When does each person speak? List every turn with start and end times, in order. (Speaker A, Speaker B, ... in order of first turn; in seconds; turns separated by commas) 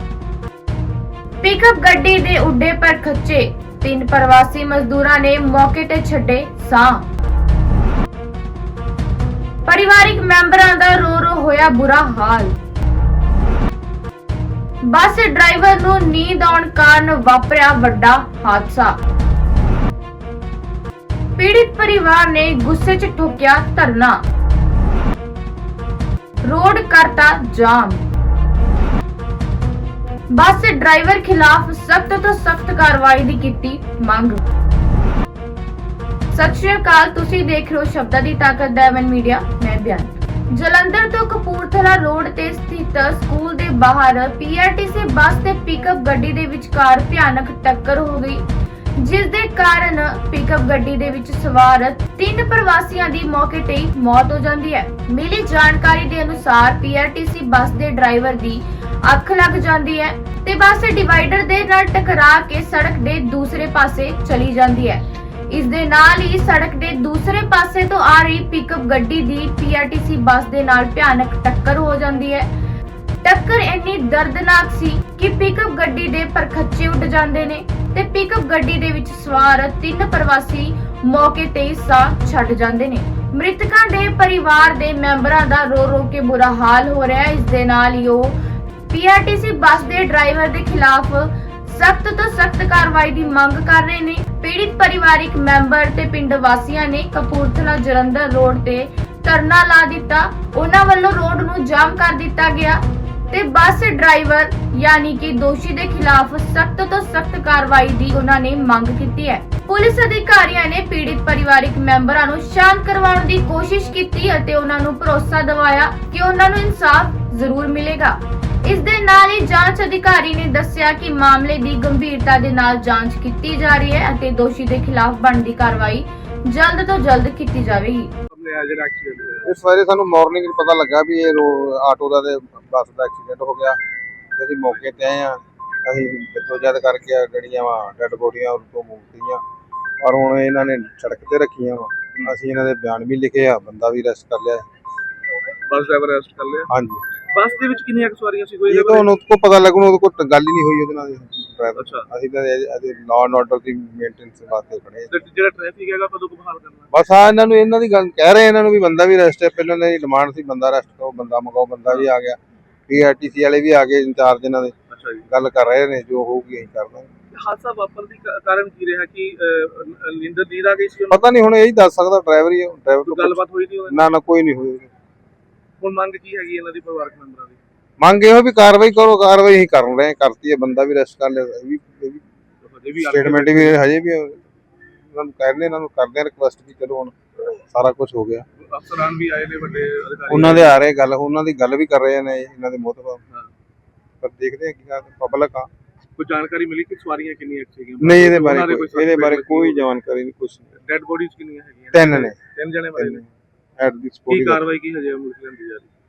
Speaker A: 1.4-7.0, Speaker A: 9.7-12.5, Speaker A: 14.9-18.9, Speaker A: 21.4-24.2, Speaker A: 26.4-28.0, Speaker A: 30.3-34.4, Speaker A: 36.3-48.4, Speaker A: 49.0-72.5, Speaker A: 73.2-88.3, Speaker A: 88.9-128.1, Speaker B: 128.3-129.5, Speaker C: 129.4-133.8, Speaker C: 134.4-139.4, Speaker C: 140.0-144.7, Speaker B: 145.7-146.7, Speaker C: 146.7-147.0, Speaker B: 147.3-149.1, Speaker C: 148.7-155.1, Speaker B: 151.8-152.1, Speaker B: 155.1-156.9, Speaker C: 156.9-162.4, Speaker C: 162.9-164.8, Speaker B: 164.9-165.2, Speaker C: 165.3-167.1, Speaker B: 167.3-171.3, Speaker C: 171.1-174.9, Speaker B: 173.1-174.1, Speaker B: 175.8-177.6, Speaker C: 178.0-182.2, Speaker B: 182.7-183.8, Speaker C: 183.0-184.4, Speaker C: 185.1-188.5, Speaker B: 188.7-190.8, Speaker C: 190.3-193.2, Speaker C: 194.2-195.7, Speaker B: 196.2-199.9, Speaker C: 198.0-200.8, Speaker B: 200.8-203.2, Speaker C: 201.9-202.4, Speaker C: 203.0-203.3, Speaker C: 203.8-204.6, Speaker B: 204.3-205.9